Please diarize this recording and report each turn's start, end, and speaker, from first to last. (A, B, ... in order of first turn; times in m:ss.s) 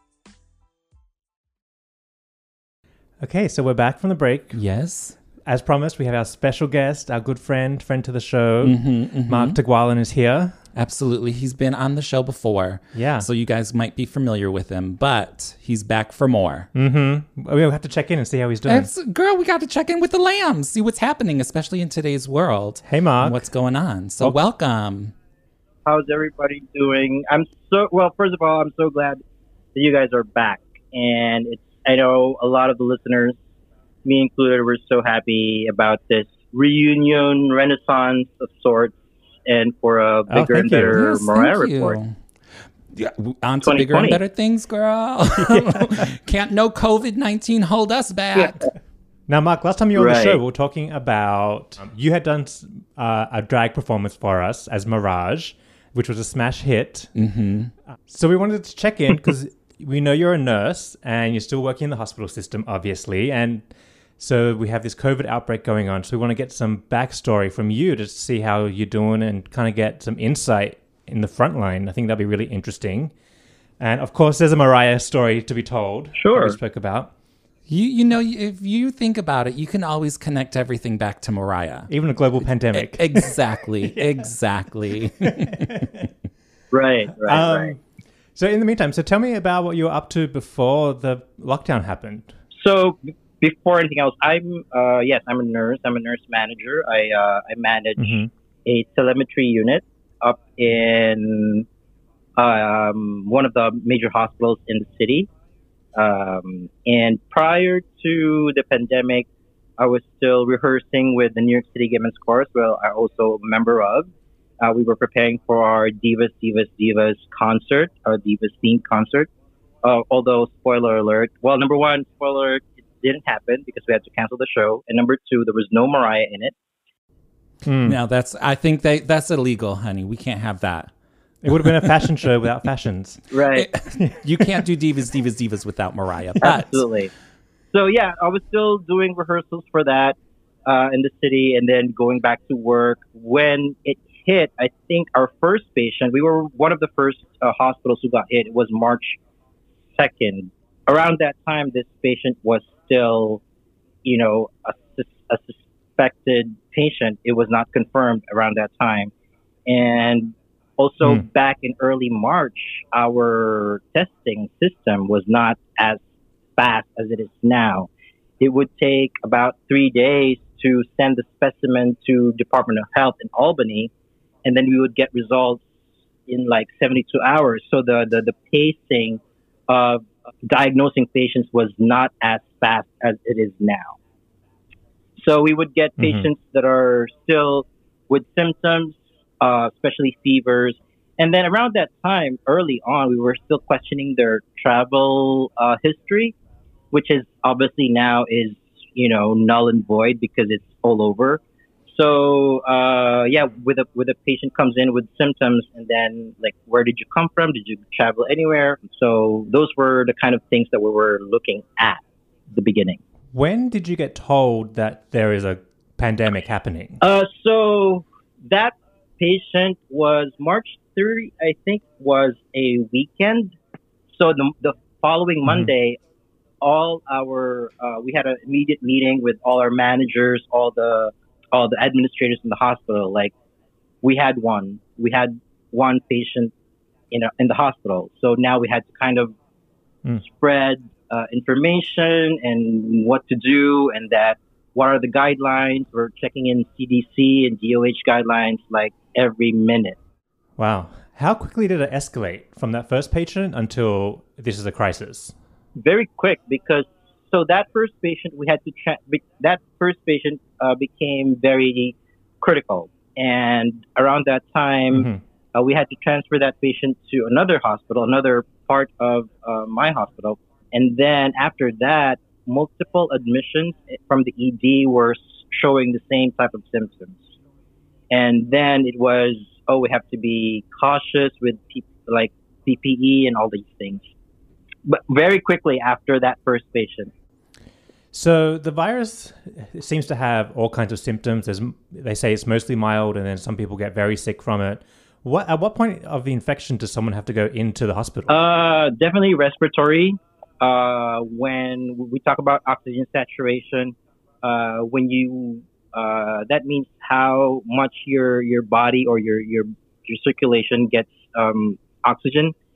0:03.2-0:04.6 A
0:04.5-0:05.2 B
0:05.4-0:10.6 A
0:08.6-0:09.6 B
0:10.8-0:16.7 B
0:12.9-0:13.3 A
0:16.8-0:18.9 A
0:18.7-0:25.1 B
0:22.8-0:23.5 A
0:25.8-0:29.2 C
0:29.8-0:33.4 C
0:34.0-0:42.0 C
0:40.3-0:41.0 A
0:40.9-0:42.2 B
0:42.9-0:48.7 B
0:43.6-0:44.2 C
0:49.3-0:57.1 A
0:50.0-0:50.4 C
0:57.2-0:57.7 B
0:58.1-1:03.6 A
1:04.2-1:13.1 A
1:13.8-1:17.1 A
1:16.2-1:16.6 C
1:17.7-1:21.9 B
1:21.9-1:24.0 A
1:22.7-1:25.9 B
1:25.2-1:26.1 A
1:26.7-1:27.7 C
1:27.2-1:27.8 A
1:28.4-1:32.3 A
1:32.6-1:41.7 C
1:38.0-1:38.3 A
1:42.4-1:45.3 C
1:46.0-1:59.3 C
1:59.8-2:06.5 C
2:07.6-2:08.0 A
2:07.8-2:10.9 B
2:11.4-2:13.2 A
2:11.5-2:11.8 B
2:13.3-2:13.7 C
2:13.5-2:16.9 B
2:16.4-2:17.1 C
2:17.7-2:29.2 C
2:30.0-2:33.4 C
2:34.0-2:39.1 C
2:39.7-2:46.0 C
2:46.6-2:47.9 C
2:48.4-2:53.9 C
2:54.4-2:55.7 C
2:56.3-3:04.0 C
3:05.2-3:16.4 C
3:06.0-3:06.3 A
3:16.9-3:33.0 C
3:33.3-3:37.0 A
3:37.0-3:43.5 C
3:44.1-3:46.0 C
3:46.6-3:53.3 C
3:54.0-3:56.5 C
3:57.1-3:59.4 C
4:00.2-4:10.0 C
4:10.6-4:15.3 A
4:15.8-4:37.3 C
4:24.9-4:25.2 A
4:38.1-4:44.1 C
4:44.9-4:47.1 C
4:48.1-4:58.3 A
4:58.3-5:12.5 C